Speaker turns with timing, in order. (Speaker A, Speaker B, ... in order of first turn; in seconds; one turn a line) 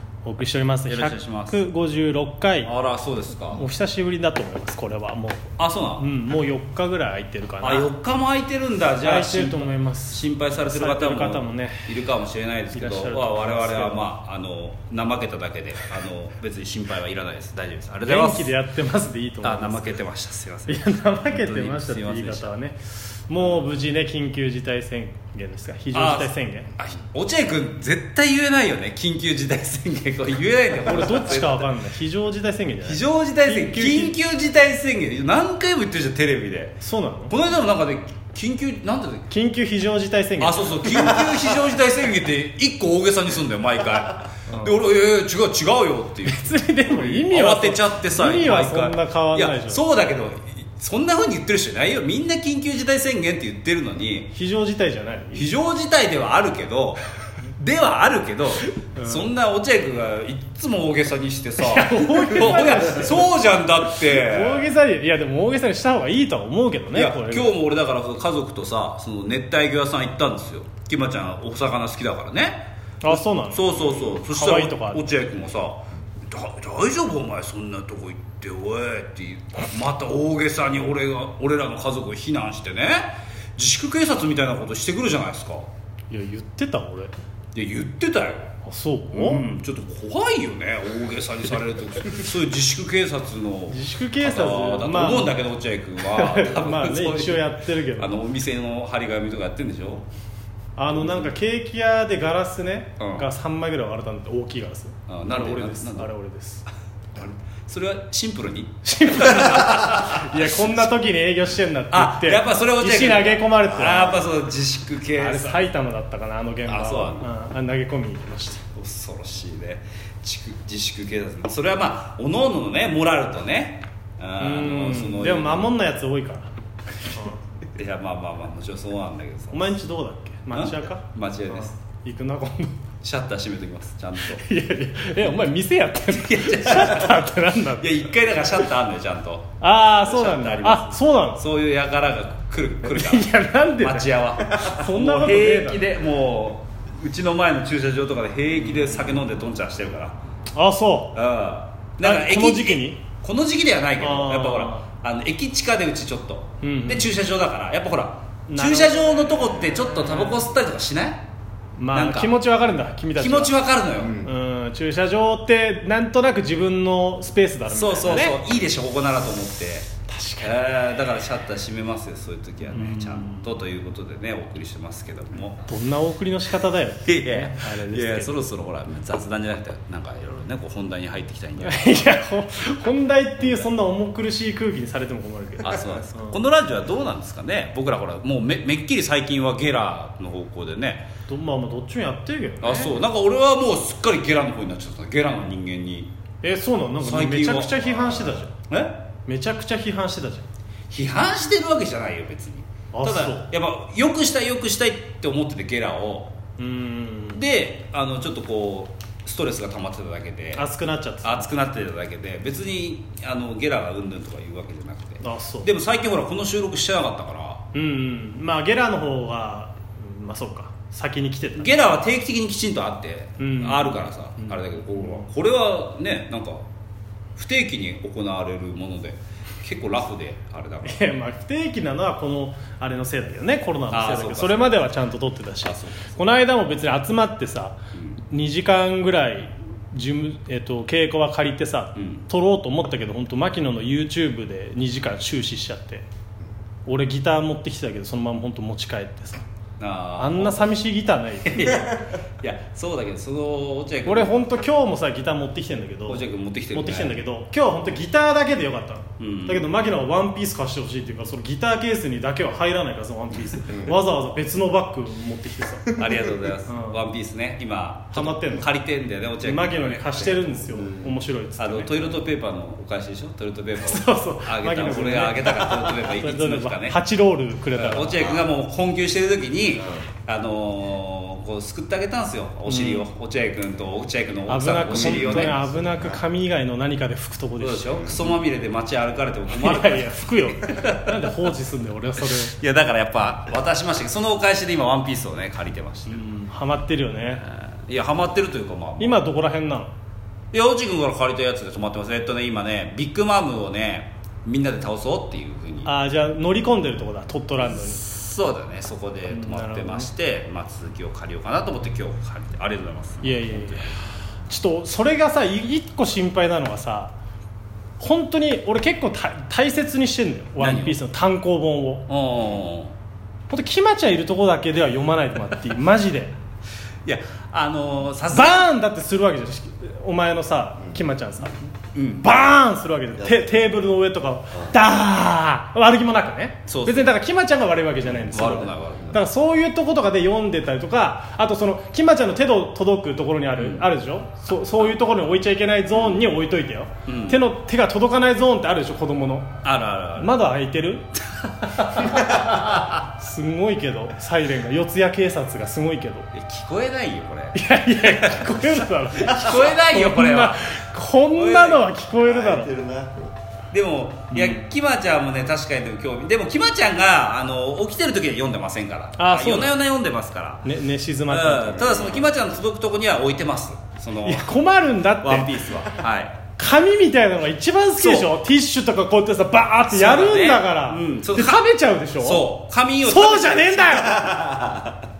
Speaker A: 0.2-2.7
Speaker B: 0.8-1.6
Speaker B: 2.6-3.6
Speaker A: 3.5-7.9
Speaker B: 5.6-6.0
Speaker B: 7.6-18.5
Speaker A: 9.0-11.9
Speaker A: 12.7-14.0
Speaker A: 18.1-20.0
Speaker B: 19.4-22.5
Speaker A: 20.7-26.7
Speaker B: 25.9-31.7
Speaker A: 30.8-34.2
Speaker B: 32.8-39.3
Speaker A: 36.8-37.3
Speaker A: 39.3-41.2
Speaker B: 40.4-54.3
Speaker A: 44.5-44.8
Speaker A: 46.2-49.8
Speaker A: 54.3-55.5
Speaker B: 55.3-57.0
Speaker B: 57.6-64.7
Speaker A: 58.8-59.3
Speaker A: 61.6-63.3
Speaker A: 64.0-67.5
Speaker B: 66.9-85.7
Speaker A: 73.0-75.0
Speaker A: 86.1-87.1
Speaker B: 87.5-88.5
Speaker A: 88.6-89.4
Speaker B: 89.1-100.0
Speaker A: 93.7-95.4
Speaker A: 96.0-98.1
Speaker A: 100.8-106.6
Speaker B: 103.0-103.3
Speaker B: 105.1-106.1
Speaker B: 107.1-110.8
Speaker A: 108.8-114.2
Speaker B: 111.9-115.7
Speaker A: 115.2-118.6
Speaker B: 116.7-117.3
Speaker B: 118.7-125.7
Speaker A: 124.4-126.5
Speaker A: 127.0-127.4
Speaker B: 127.7-129.7
Speaker A: 129.5-132.8
Speaker B: 130.5-131.7
Speaker B: 133.0-134.4
Speaker A: 134.2-138.7
Speaker B: 136.1-150.2
Speaker A: 139.6-141.4
Speaker A: 142.8-145.8
Speaker A: 150.5-151.2
Speaker B: 151.1-161.2
Speaker A: 152.0-153.0
Speaker A: 154.0-154.8
Speaker A: 156.6-157.1
Speaker A: 158.5-159.6
Speaker A: 161.8-163.6
Speaker B: 161.9-162.3
Speaker B: 163.1-164.2
Speaker C: 164.0-164.3
Speaker A: 164.2-168.4
Speaker B: 167.7-169.9
Speaker A: 170.1-170.6
Speaker B: 170.4-175.6
Speaker A: 172.7-173.5
Speaker A: 175.7-178.4
Speaker B: 177.0-182.1
Speaker A: 181.6-186.4
Speaker B: 185.6-191.1
Speaker A: 191.3-193.0
Speaker B: 192.6-196.1
Speaker A: 196.4-198.5
Speaker B: 197.0-199.0
Speaker A: 199.2-200.5
Speaker B: 200.9-206.3
Speaker A: 202.9-203.5
Speaker A: 206.6-207.4
Speaker B: 207.3-210.7
Speaker A: 210.5-211.6
Speaker B: 211.2-217.6
Speaker A: 215.2-215.7
Speaker A: 217.7-221.8
Speaker B: 221.6-226.6
Speaker A: 223.4-225.3
Speaker B: 227.3-231.1
Speaker A: 230.8-237.8
Speaker B: 233.9-234.9
Speaker B: 235.6-236.2
Speaker B: 237.9-238.2
Speaker A: 238.3-246.1
Speaker B: 241.9-242.2
Speaker A: 246.8-249.4
Speaker B: 249.8-250.7
Speaker A: 250.2-251.9
Speaker B: 251.4-254.3
Speaker A: 254.0-266.0
Speaker B: 256.1-257.1
Speaker B: 259.2-259.7
Speaker B: 265.9-270.9
Speaker A: 266.6-267.0
Speaker A: 268.1-268.7
Speaker A: 269.4-271.9
Speaker B: 271.6-277.0
Speaker A: 273.8-278.4
Speaker B: 277.7-285.6
Speaker A: 282.7-283.1
Speaker A: 284.5-288.1
Speaker C: 284.9-286.1
Speaker B: 287.6-291.3
Speaker A: 289.5-292.5
Speaker B: 292.2-296.2
Speaker A: 296.1-297.4
Speaker B: 297.4-299.2
Speaker A: 299.0-299.9
Speaker B: 300.5-305.9
Speaker A: 305.8-308.0
Speaker B: 307.6-313.9
Speaker A: 309.3-310.1
Speaker A: 313.2-317.1
Speaker A: 318.0-322.1
Speaker B: 320.6-321.0
Speaker B: 322.1-322.9
Speaker A: 323.5-326.3
Speaker B: 327.0-328.6
Speaker A: 328.3-349.5
Speaker B: 331.9-332.3
Speaker B: 336.7-337.1
Speaker B: 338.1-339.2
Speaker B: 343.5-343.9
Speaker B: 345.9-346.2
Speaker B: 347.1-347.4
Speaker B: 349.6-350.4
Speaker A: 350.2-351.1
Speaker B: 351.5-353.0
Speaker A: 351.9-352.4
Speaker A: 353.1-356.3
Speaker B: 356.3-361.9
Speaker A: 357.5-362.8
Speaker C: 362.5-363.1
Speaker B: 363.7-370.6
Speaker A: 364.3-364.6
Speaker A: 369.2-369.7
Speaker A: 370.6-372.3
Speaker B: 371.3-374.5
Speaker A: 374.2-375.6
Speaker B: 375.2-376.4
Speaker A: 376.6-382.5
Speaker B: 378.0-378.3
Speaker B: 379.9-381.7
Speaker B: 382.2-385.0
Speaker A: 383.0-384.4